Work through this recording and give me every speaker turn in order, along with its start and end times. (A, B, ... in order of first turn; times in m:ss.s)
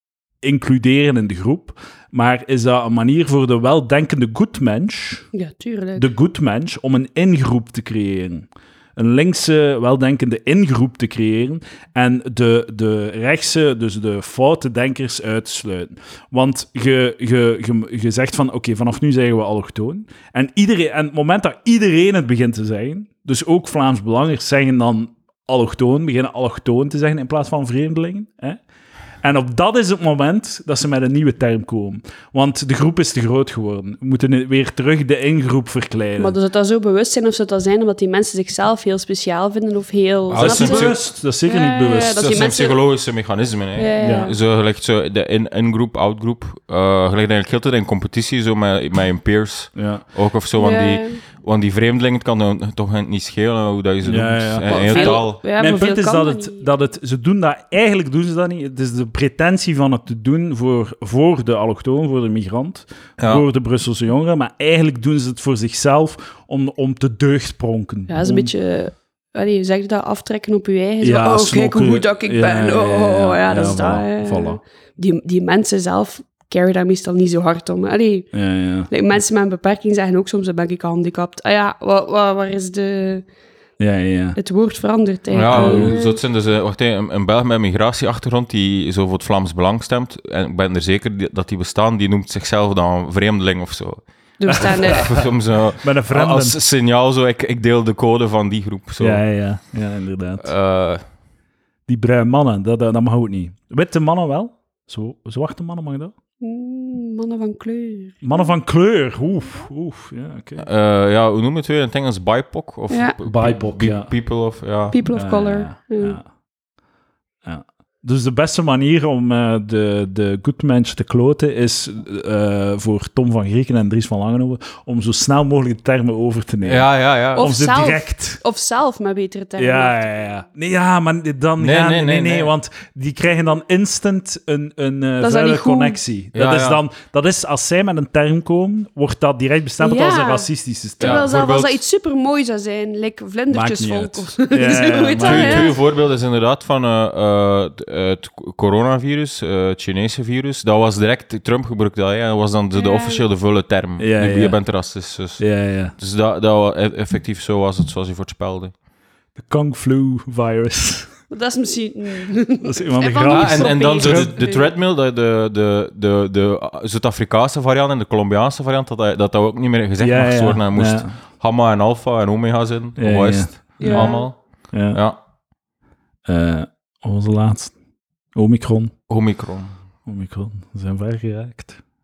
0:00.4-0:05.3 A
0:05.3-0:06.1 B
0:06.0-0:28.6 A
0:29.2-0:36.4 A
0:36.2-0:42.8 B
0:40.3-0:41.0 C
0:40.4-0:42.3 A
0:42.1-0:55.4 C
0:43.8-0:44.4 B
0:44.0-0:44.3 A
0:49.8-0:50.0 A
0:50.6-0:51.2 B
0:54.0-1:08.5 A
0:54.7-0:56.7 B
1:03.2-1:03.4 C
1:08.1-1:18.3 B
1:11.0-1:14.6 A
1:18.3-1:18.9 A
1:18.9-1:23.2 B
1:23.8-1:24.4 A
1:24.4-1:26.2 B
1:25.3-1:39.2 C
1:25.5-1:26.0 A
1:34.4-1:35.2 B
1:34.5-1:36.6 A
1:39.0-1:40.5 A
1:40.4-1:41.0 C
1:41.9-1:46.1 A
1:46.4-1:48.5 B
1:48.2-1:50.7 A
1:50.6-1:55.0 C
1:52.9-1:53.2 B
1:53.2-1:54.1 A
1:54.9-1:56.2 B
1:55.1-1:56.3 A
1:57.4-2:08.4 A
2:06.6-2:07.5 C
2:07.4-2:10.1 B
2:09.6-2:21.3 A
2:11.6-2:12.5 C
2:15.2-2:16.0 B
2:16.3-2:16.8 C
2:19.8-2:25.8 B
2:21.0-2:21.8 C
2:23.5-2:25.7 A
2:25.2-2:38.7 C
2:32.8-2:33.2 B
2:34.0-2:34.6 A
2:35.4-2:35.9 A
2:39.4-2:41.1 A
2:41.3-2:44.7 B
2:42.6-2:44.4 A
2:43.3-2:54.4 C
2:50.0-2:51.2 A
2:53.0-2:54.1 A
2:53.8-2:54.3 B
2:54.7-2:55.0 A
2:54.9-2:55.2 C
2:56.3-2:57.8 A
2:58.3-2:59.0 A
2:59.1-2:59.8 C
3:00.1-3:01.8 A